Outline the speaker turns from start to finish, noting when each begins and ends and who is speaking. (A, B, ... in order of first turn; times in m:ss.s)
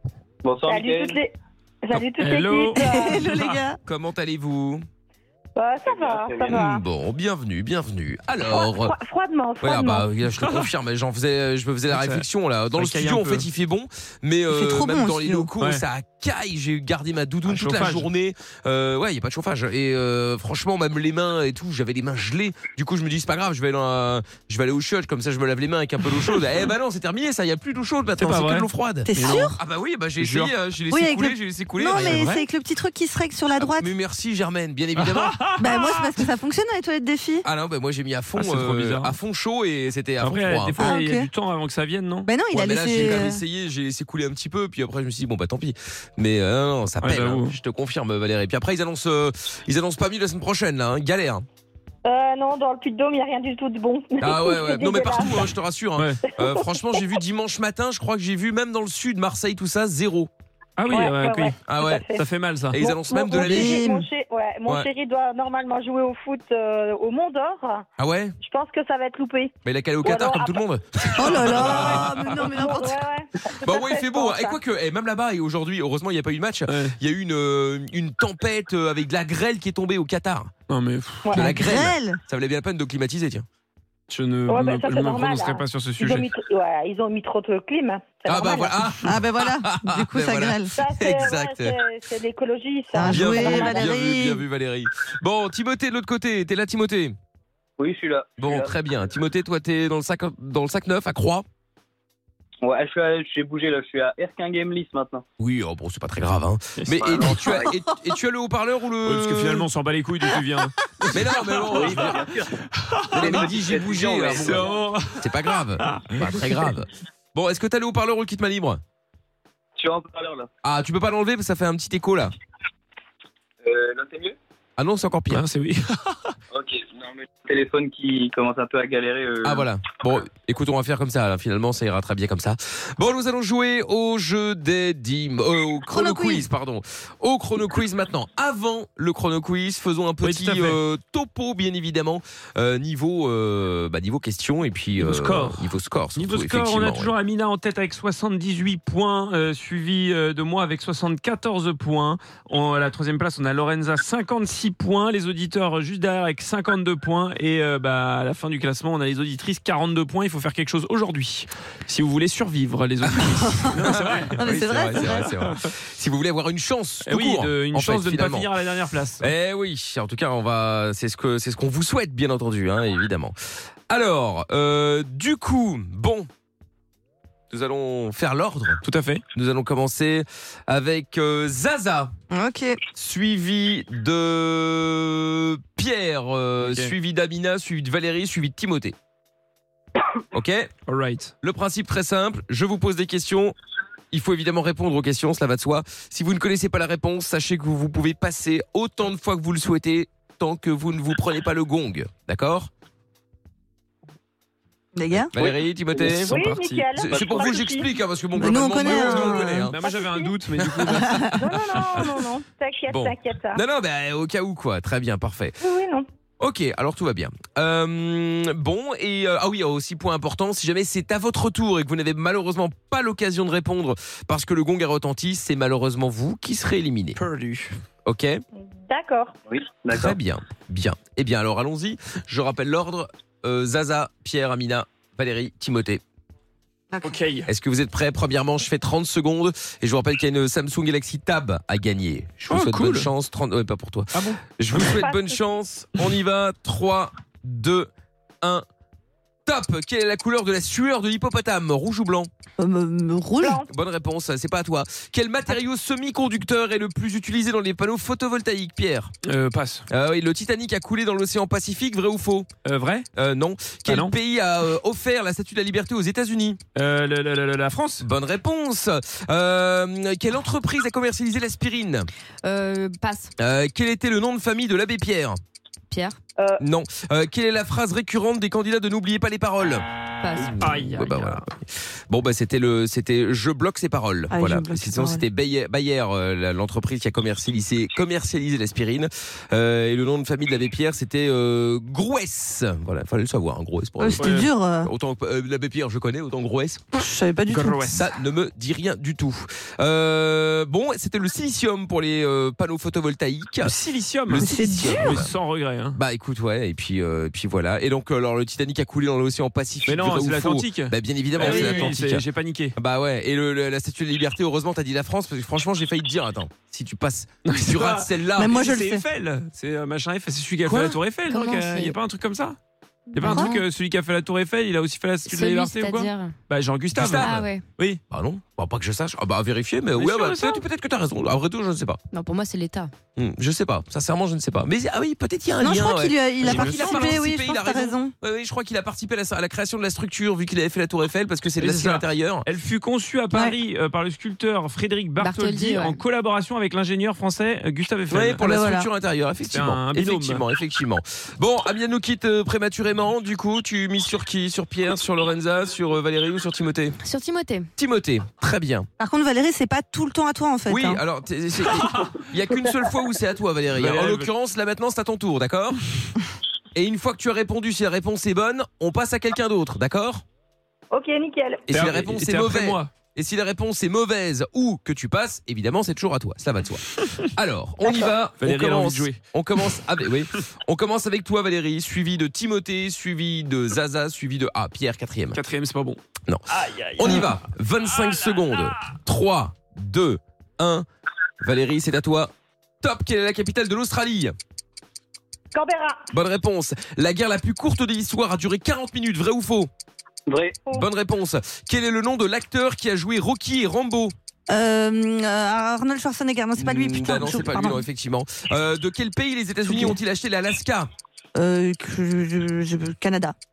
0:00.4-0:01.2 A
0:00.7-0:03.3 B
0:02.1-0:03.6 C
0:02.7-0:03.8 D
0:03.8-0:04.8 E
0:05.6-0:06.8 B
0:05.8-0:06.6 A
0:06.5-0:09.0 E
0:08.5-0:10.1 B
0:09.6-0:32.2 E
0:10.3-0:10.7 C
0:11.9-0:13.5 C
0:14.5-0:15.5 D
0:15.6-0:15.8 C
0:17.5-0:18.1 C
0:28.2-0:29.5 C
0:29.0-0:29.6 D
0:30.2-0:30.5 C
0:30.9-0:33.9 D
0:31.9-0:32.4 C
0:33.6-0:35.6 E
0:35.0-0:36.2 C
0:35.6-0:37.4 D
0:37.4-0:40.9 E
0:38.4-0:39.2 C
0:40.2-0:42.3 C
0:40.8-0:41.3 D
0:42.2-0:43.4 D
0:42.5-0:51.4 E
0:47.0-0:47.6 C
0:52.0-0:55.5 B
0:54.2-1:00.3 E
0:56.3-0:57.0 B
1:00.8-1:01.6 C
1:00.9-1:07.8 B
1:01.7-1:02.1 E
1:02.1-1:02.8 C
1:02.7-1:03.8 E
1:03.4-1:04.1 D
1:08.0-1:08.4 E
1:08.4-1:09.5 B
1:09.6-1:12.4 E
1:10.0-1:10.6 B
1:11.1-1:13.0 D
1:11.5-1:12.2 C
1:12.4-1:14.6 B
1:13.6-1:20.5 E
1:16.7-1:16.9 C
1:20.7-1:21.3 C
1:21.2-1:21.6 B
1:21.3-1:23.4 E
1:21.3-1:22.2 D
1:24.1-1:26.3 C
1:24.5-1:28.9 B
1:28.2-1:31.8 E
1:29.0-1:30.7 D
1:30.7-1:34.0 B
1:32.9-1:34.4 D
1:33.0-1:37.2 E
1:37.8-1:38.7 A
1:38.4-1:41.4 E
1:42.6-1:45.2 A
1:45.4-1:49.7 E
1:46.8-1:47.5 C
1:47.0-1:47.7 A
1:49.0-1:52.2 C
1:51.1-1:52.4 E
1:51.7-1:52.5 A
1:52.8-1:53.4 C
1:53.1-1:58.8 E
1:53.1-1:54.8 A
1:54.4-1:56.7 C
1:59.8-2:00.5 A
2:00.6-2:02.3 E
2:03.6-2:04.4 A
2:04.8-2:05.4 E
2:05.3-2:06.4 C
2:06.5-2:09.6 A
2:09.4-2:27.1 E
2:15.9-2:16.5 D
2:20.2-2:20.8 C
2:25.0-2:45.7 C
2:43.0-2:48.5 E
2:43.6-2:45.3 D
2:47.0-2:49.3 C
2:49.2-2:53.4 E
2:53.9-2:56.3 E
2:57.5-2:58.8 E
2:58.8-2:59.2 C
2:59.3-3:02.1 E
3:02.3-3:02.8 D
3:02.9-3:08.9 E
3:06.6-3:06.9 C
3:10.3-3:10.7 E
3:10.9-3:11.3 C
3:11.4-3:13.5 E
3:14.1-3:22.7 E
3:25.0-3:25.3 D
3:25.3-3:29.8 E
3:25.4-3:26.3 A
3:26.0-3:27.9 B
3:27.0-3:27.5 A
3:28.3-3:29.7 D
3:29.6-3:31.3 C
3:29.8-3:30.3 B
3:30.6-3:32.2 E
3:30.8-3:31.3 D
3:31.3-3:33.6 B
3:32.9-3:35.6 E
3:35.6-3:36.0 B
3:36.4-3:47.2 E
3:47.2-3:47.7 C
3:48.0-3:48.4 E
3:48.6-3:49.3 B
3:49.5-3:50.1 A
3:49.9-3:56.0 E
3:56.9-3:57.2 D
3:57.0-3:57.5 C
3:57.5-4:07.9 E
4:02.4-4:03.1 C
4:04.1-4:04.8 C
4:04.8-4:05.4 B
4:09.4-4:12.3 E
4:12.6-4:13.6 D
4:13.4-4:13.7 B
4:13.6-4:19.1 E
4:19.2-4:19.8 C
4:19.9-4:22.5 E
4:22.6-4:23.1 C
4:23.2-4:26.6 E
4:23.8-4:24.1 C
4:26.7-4:28.0 C
4:28.0-4:32.1 E
4:32.4-4:33.3 F
4:33.4-4:35.4 E
4:35.9-4:36.2 F
4:36.6-4:39.8 E
4:40.2-4:41.0 F
4:40.4-4:41.4 C
4:40.4-4:41.5 E
4:42.1-4:56.9 E
4:44.3-4:45.2 D
4:54.0-4:54.9 D
4:54.2-4:54.5 C
4:56.9-4:58.0 D
4:57.5-4:58.0 C
4:57.9-5:03.7 E
5:03.6-5:06.0 C
5:04.3-5:05.3 E
5:04.4-5:05.2 D
5:05.9-5:12.2 E
5:09.8-5:12.7 C
5:11.4-5:11.9 D
5:12.8-5:18.6 E
5:17.4-5:22.6 C
5:18.3-5:19.1 D
5:21.3-5:22.0 F
5:23.1-5:23.6 F
5:23.1-5:28.0 C
5:23.3-5:23.6 D
5:25.2-5:26.3 F
5:26.9-5:27.5 E
5:27.2-5:27.6 F
5:28.1-5:32.0 E
5:29.9-5:30.6 C
5:32.1-5:32.9 F
5:33.2-5:42.5 E
5:35.6-5:38.1 D
5:36.4-5:37.0 C
5:41.6-5:48.5 C
5:43.3-5:43.6 D
5:45.2-5:46.0 F
5:48.1-5:57.0 E
5:48.5-5:48.9 D
5:49.4-5:50.4 C
5:57.0-5:57.7 F
5:57.8-5:58.9 E
5:59.0-6:01.0 D
6:00.7-6:05.8 E
6:01.7-6:02.1 C
6:03.7-6:04.3 C
6:06.7-6:10.2 E
6:10.9-6:11.7 B
6:11.7-6:25.4 E
6:11.7-6:12.9 C
6:17.8-6:19.2 C
6:25.3-6:28.7 C
6:27.0-6:30.8 E
6:31.4-6:32.3 E
6:32.8-6:34.3 E
6:35.5-6:36.1 B
6:36.1-6:39.7 E
6:40.3-6:40.6 A
6:40.7-6:44.1 E
6:44.5-6:47.8 D
6:46.6-6:50.9 E
6:49.7-6:50.0 D
6:51.3-6:53.3 D